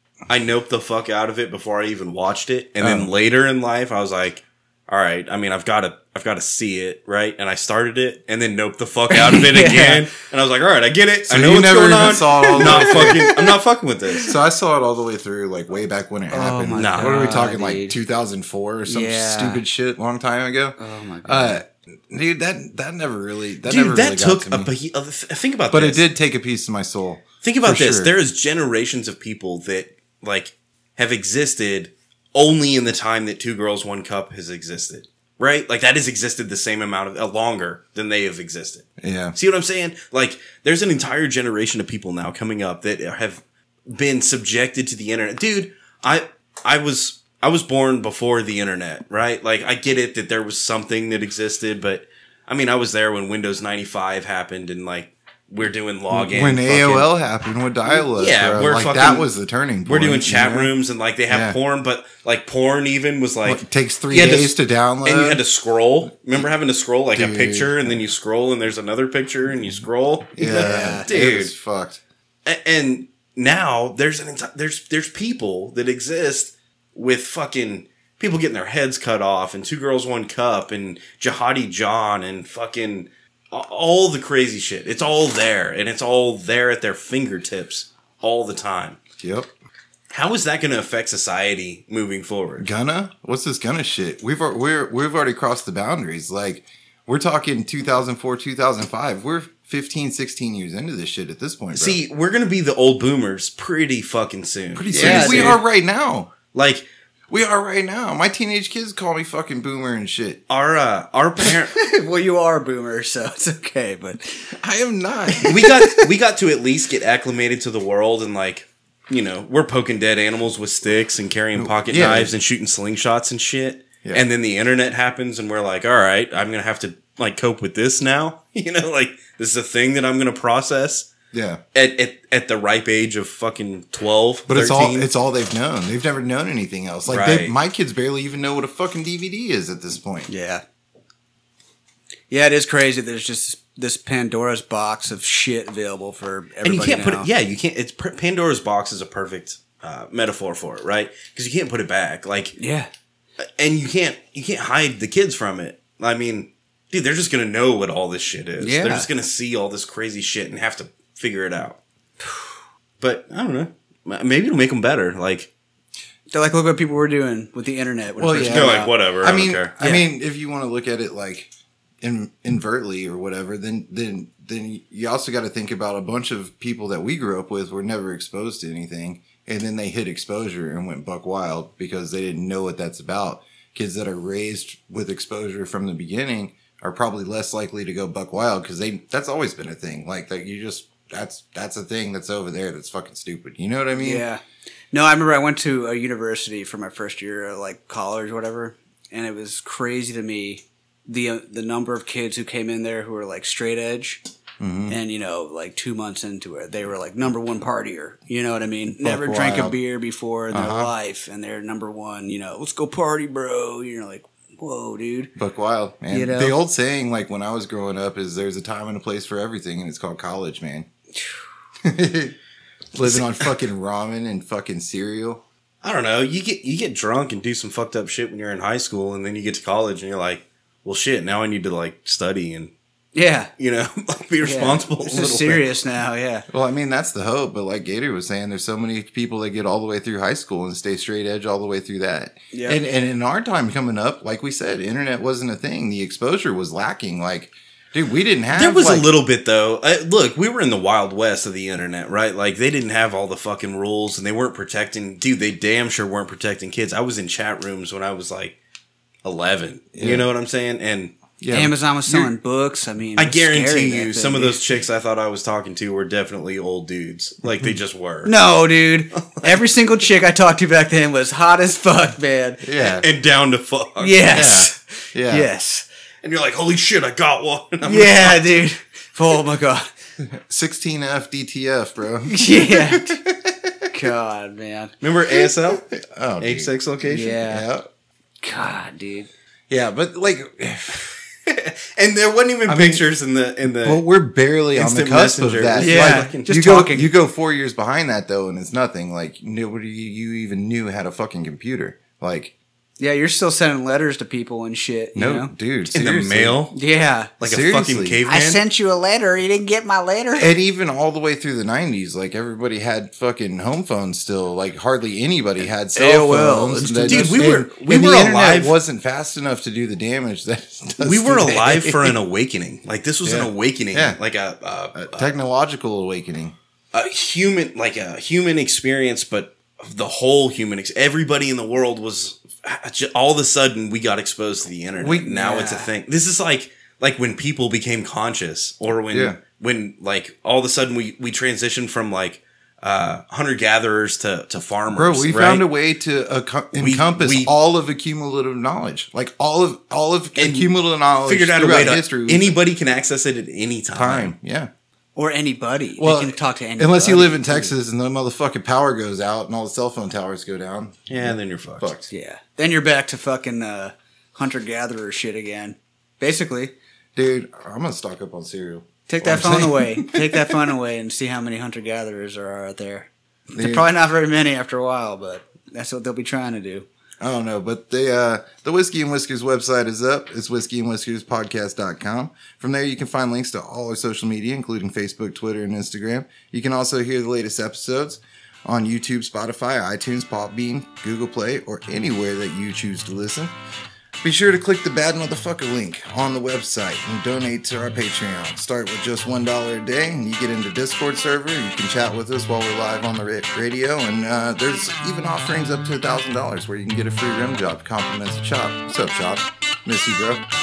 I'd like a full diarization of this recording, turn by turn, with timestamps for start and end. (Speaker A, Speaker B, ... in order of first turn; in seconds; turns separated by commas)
Speaker A: 0.3-14.3, Speaker B: 2.8-3.1, Speaker C: 9.1-10.0, Speaker B: 11.3-13.3, Speaker C: 12.3-13.4, Speaker B: 14.2-24.7, Speaker C: 16.3-17.9, Speaker A: 16.8-17.2, Speaker C: 18.9-19.6, Speaker C: 20.8-21.6, Speaker A: 23.6-26.1, Speaker B: 25.7-28.1, Speaker A: 27.4-57.1, Speaker B: 39.0-39.4, Speaker B: 56.1-60.7, Speaker A: 58.1-59.3, Speaker A: 59.9-71.5, Speaker B: 61.3-61.6, Speaker B: 63.4-65.4, Speaker B: 67.1-68.0, Speaker B: 70.3-72.0, Speaker C: 70.5-71.1, Speaker A: 72.4-89.0, Speaker B: 89.2-89.5, Speaker A: 90.1-92.7, Speaker B: 92.6-102.0, Speaker A: 101.7-105.6, Speaker B: 104.7-106.3, Speaker C: 104.9-105.6, Speaker A: 106.5-106.8, Speaker B: 107.3-110.4, Speaker A: 110.5-111.8, Speaker C: 111.5-114.5, Speaker B: 114.6-115.9, Speaker C: 115.4-115.9, Speaker A: 115.4-131.1, Speaker B: 121.5-122.3, Speaker B: 131.3-131.6, Speaker A: 131.7-135.1, Speaker B: 134.5-140.3, Speaker A: 137.1-137.5, Speaker C: 140.3-140.6, Speaker C: 142.3-147.3, Speaker A: 146.6-152.6, Speaker C: 152.6-152.9, Speaker A: 153.6-161.8, Speaker C: 158.6-159.1, Speaker A: 163.0-165.5, Speaker C: 166.3-168.9, Speaker B: 168.2-171.5, Speaker A: 168.5-169.7, Speaker B: 172.0-194.2, Speaker C: 193.9-194.4, Speaker C: 194.9-204.2, Speaker B: 204.6-205.0, Speaker C: 204.9-215.3, Speaker B: 209.0-209.8, Speaker B: 210.5-210.9, Speaker B: 215.3-220.9, Speaker C: 216.1-216.6, Speaker B: 221.8-222.3, Speaker B: 222.9-225.4, Speaker A: 223.1-223.4, Speaker A: 225.8-232.7, Speaker C: 233.1-233.5, Speaker A: 233.6-235.6, Speaker C: 234.4-236.4, Speaker B: 236.5-249.1, Speaker C: 242.5-242.8, Speaker A: 248.5-258.6, Speaker A: 259.2-261.1, Speaker B: 259.9-260.3, Speaker B: 261.4-262.3, Speaker C: 261.5-264.6, Speaker A: 263.2-268.4, Speaker C: 268.2-272.6, Speaker A: 269.1-269.7, Speaker B: 272.6-273.1, Speaker A: 272.8-274.3, Speaker C: 274.0-275.8, Speaker B: 274.3-275.5, Speaker A: 276.2-278.6, Speaker C: 277.8-279.9, Speaker B: 280.2-283.9, Speaker C: 282.3-283.2, Speaker C: 283.9-284.9, Speaker A: 285.0-285.8, Speaker B: 285.4-287.9, Speaker A: 286.4-287.4, Speaker C: 287.0-287.6, Speaker C: 288.4-289.3, Speaker B: 289.7-291.1, Speaker A: 291.4-294.0, Speaker B: 292.7-293.1, Speaker B: 293.8-302.5, Speaker A: 294.7-296.5, Speaker C: 295.8-297.1, Speaker C: 303.0-305.5, Speaker B: 305.1-306.6, Speaker A: 305.9-306.7, Speaker C: 306.7-307.3, Speaker A: 307.4-308.6, Speaker B: 307.4-308.2, Speaker C: 308.2-310.5, Speaker B: 310.4-322.2, Speaker C: 315.9-317.5, Speaker A: 317.1-318.8, Speaker A: 321.0-325.3, Speaker B: 323.2-324.2, Speaker B: 324.9-326.5, Speaker A: 326.9-345.7, Speaker B: 335.0-335.3, Speaker C: 335.3-335.9, Speaker B: 339.1-339.4, Speaker B: 344.9-352.6, Speaker A: 346.7-347.5, Speaker A: 350.4-354.3, Speaker B: 353.9-354.7, Speaker C: 355.1-357.7, Speaker B: 356.0-362.1, Speaker A: 361.1-361.9, Speaker C: 362.1-366.7, Speaker B: 367.1-370.6, Speaker C: 369.1-376.9, Speaker B: 373.5-373.9, Speaker B: 377.2-393.5, Speaker B: 394.2-410.4